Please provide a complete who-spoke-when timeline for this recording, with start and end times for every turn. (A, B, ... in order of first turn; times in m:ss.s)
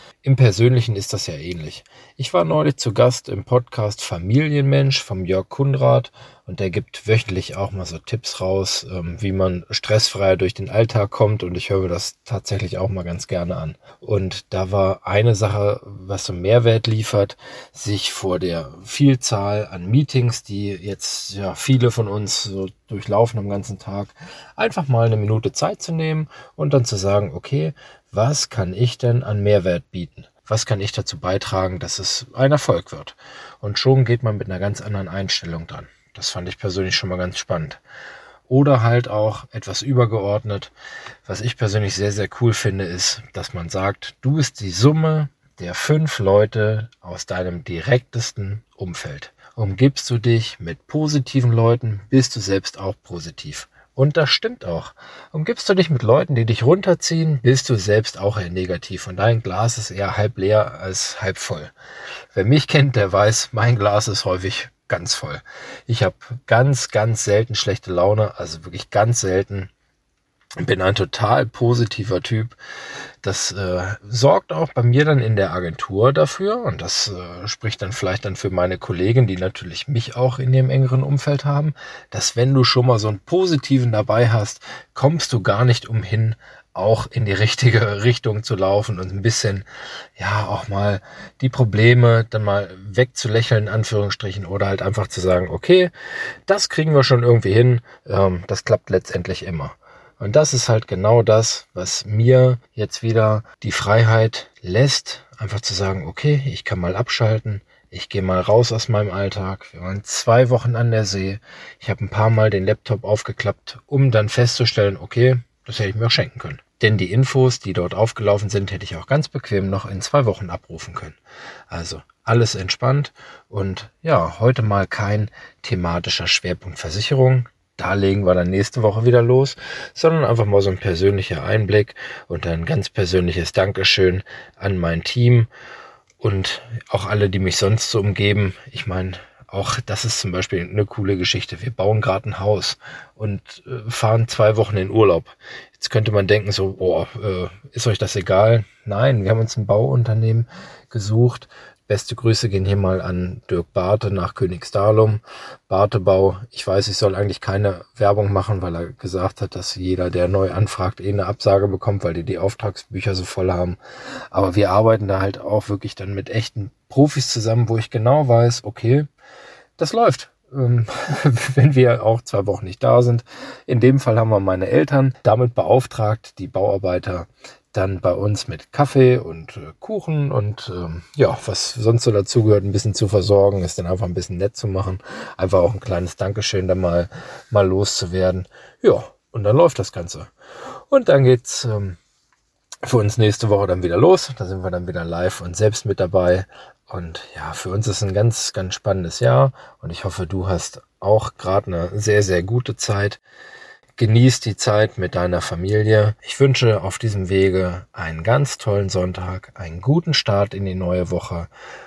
0:00.2-0:37.8 A
0:38.5-0:40.7 A
0:41.2-1:01.7 A
1:02.3-1:09.7 A
1:10.6-1:12.6 A
1:13.2-1:29.6 A
1:30.2-1:35.9 A
1:36.4-2:01.2 A
2:01.7-2:15.5 A
2:16.2-2:43.8 A
2:44.3-2:49.1 A
2:49.8-3:10.3 A
3:10.9-3:12.0 A
3:12.8-3:23.2 A
3:24.0-3:31.5 A